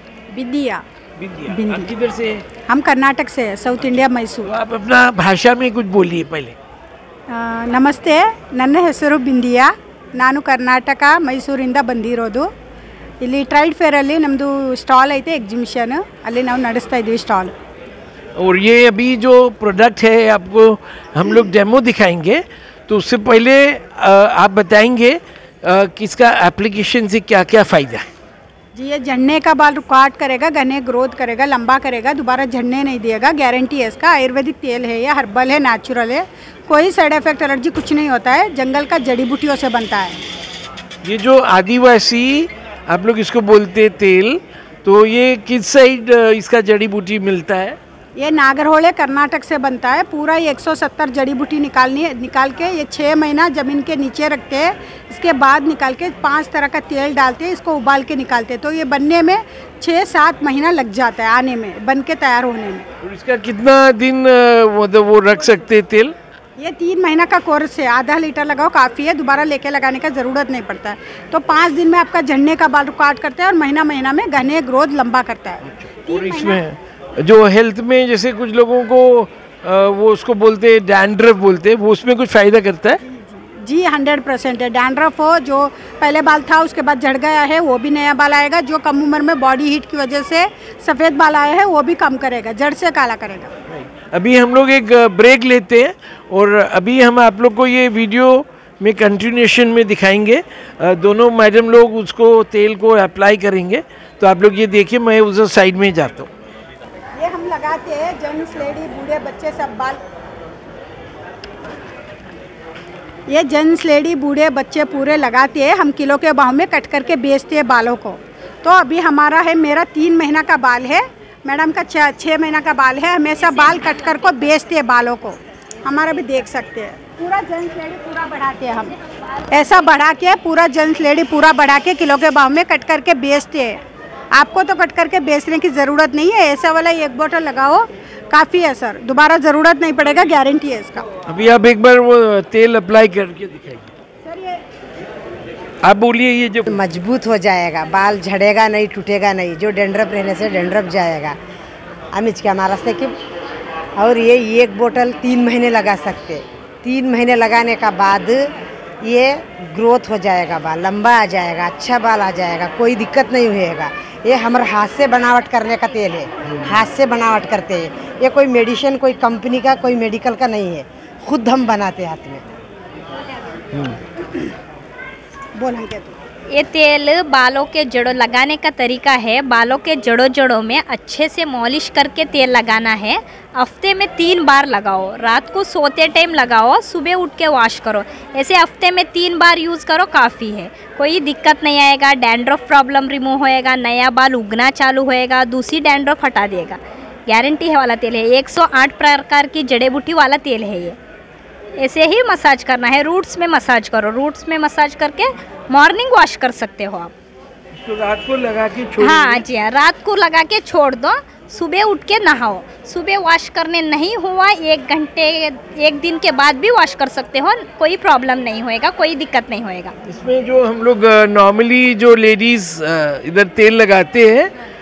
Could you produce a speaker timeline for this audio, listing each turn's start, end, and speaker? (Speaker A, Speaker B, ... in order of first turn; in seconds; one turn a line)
Speaker A: 0.3-0.8
Speaker B: 1.2-2.5
Speaker A: 1.5-1.9
Speaker A: 2.7-4.5
Speaker B: 4.4-6.6
Speaker A: 7.3-12.5
Speaker A: 13.2-17.5
Speaker B: 18.4-28.1
Speaker A: 28.8-40.2
Speaker B: 41.0-47.8
Speaker A: 48.2-62.9
Speaker B: 63.0-66.1
Speaker A: 66.6-76.6
Speaker B: 75.7-83.0
Speaker A: 83.0-93.5
Speaker B: 93.7-106.3
Speaker A: 107.2-110.0
Speaker A: 113.3-129.0
Speaker A: 129.5-133.8
Speaker A: 134.3-141.1
Speaker B: 141.3-143.9
Speaker A: 144.2-144.6
Speaker B: 145.8-146.8
Speaker C: 146.7-151.3
Speaker C: 152.1-153.1
Speaker C: 154.0-158.5
Speaker C: 159.0-172.4
Speaker A: 175.6-176.2
Speaker D: 176.5-201.0
Speaker D: 201.8-207.1
Speaker B: 207.7-209.4
Speaker D: 209.0-219.9
Speaker B: 220.1-224.5